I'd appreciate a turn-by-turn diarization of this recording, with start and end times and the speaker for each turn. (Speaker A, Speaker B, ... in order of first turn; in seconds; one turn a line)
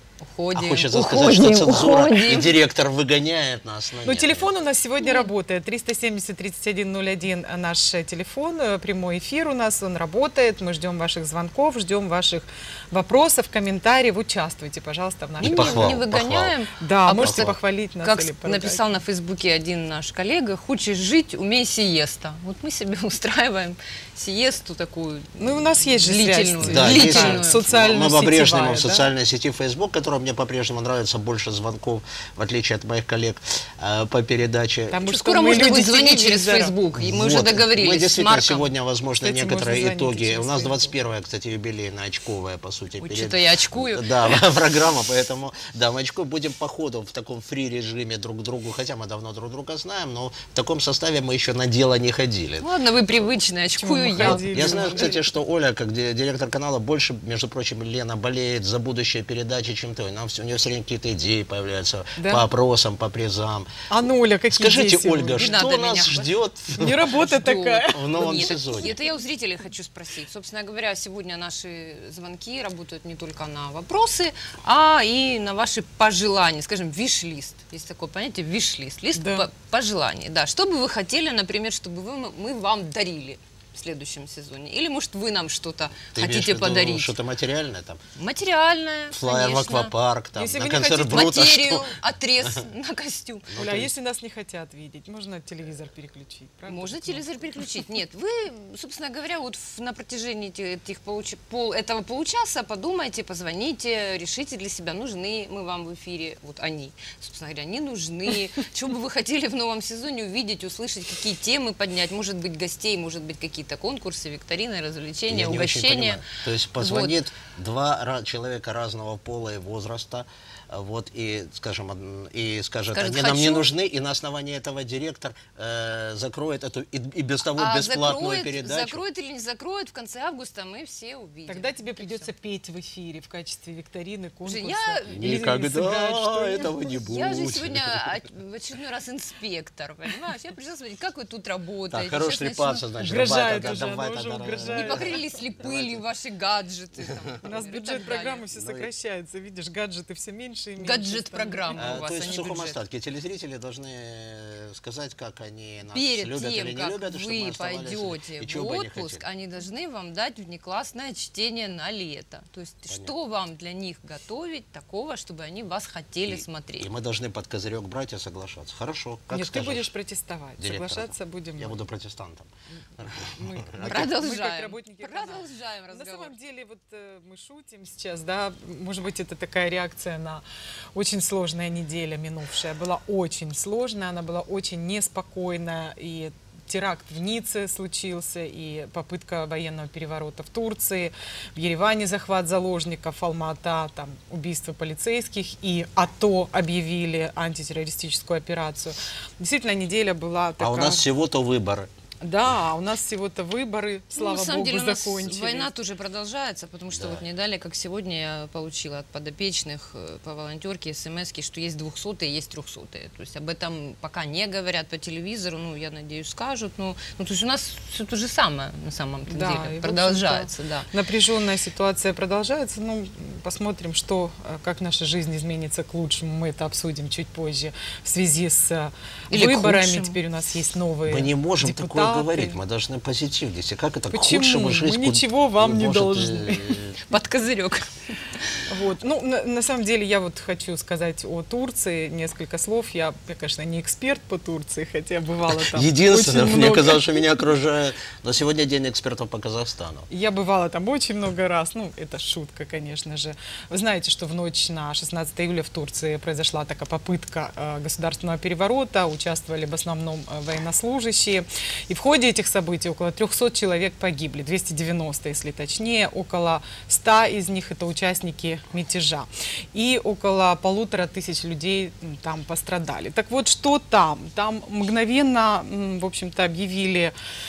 Speaker A: 0.2-2.6
Speaker B: 0.5-4.5
Speaker C: 4.1-16.0
Speaker A: 5.0-5.3
Speaker B: 15.4-16.5
Speaker A: 15.4-27.6
Speaker C: 16.8-18.9
Speaker B: 17.2-17.5
Speaker C: 25.4-29.1
Speaker B: 26.6-35.0
Speaker C: 34.9-36.7
Speaker A: 35.0-38.7
Speaker B: 37.0-52.7
Speaker C: 39.2-41.0
Speaker A: 43.0-44.2
Speaker A: 52.6-55.2
Speaker C: 53.8-55.2
Speaker B: 54.2-63.7
Speaker C: 62.2-62.5
Speaker C: 63.9-65.5
Speaker B: 64.5-67.0
Speaker A: 65.4-66.3
Speaker C: 66.8-68.4
Speaker A: 67.1-87.2
Speaker B: 67.9-69.0
Speaker C: 79.2-79.5
Speaker B: 86.2-88.0
Speaker A: 88.2-89.9
Speaker B: 89.1-91.9
Speaker C: 90.4-91.4
Speaker A: 91.1-93.5
Speaker B: 93.5-94.0
Speaker C: 93.6-97.6
Speaker A: 96.7-116.3
Speaker B: 115.3-129.0
Speaker A: 116.8-117.2
Speaker A: 122.9-123.7
Speaker A: 127.6-132.3
Speaker C: 131.5-136.7
Speaker A: 134.4-135.5
Speaker B: 135.1-138.1
Speaker A: 137.0-142.8
Speaker B: 141.9-146.0
Speaker C: 143.0-145.2
Speaker A: 144.7-148.4
Speaker C: 147.4-152.0
Speaker B: 148.5-148.9
Speaker A: 150.8-152.8
Speaker B: 151.8-159.2
Speaker A: 155.9-166.9
Speaker B: 162.9-163.1
Speaker B: 166.3-169.9
Speaker C: 169.3-171.8
Speaker B: 170.6-174.2
Speaker C: 173.2-180.4
Speaker A: 173.8-176.3
Speaker C: 180.9-201.0
Speaker B: 200.6-201.9
Speaker C: 202.2-205.7
Speaker A: 204.2-220.9
Speaker B: 206.9-207.2
Speaker C: 219.3-232.6
Speaker A: 229.3-230.2
Speaker B: 231.1-237.0
Speaker C: 234.1-236.8
Speaker A: 237.1-238.6
Speaker C: 238.7-247.2
Speaker B: 245.5-250.1
Speaker C: 250.1-277.1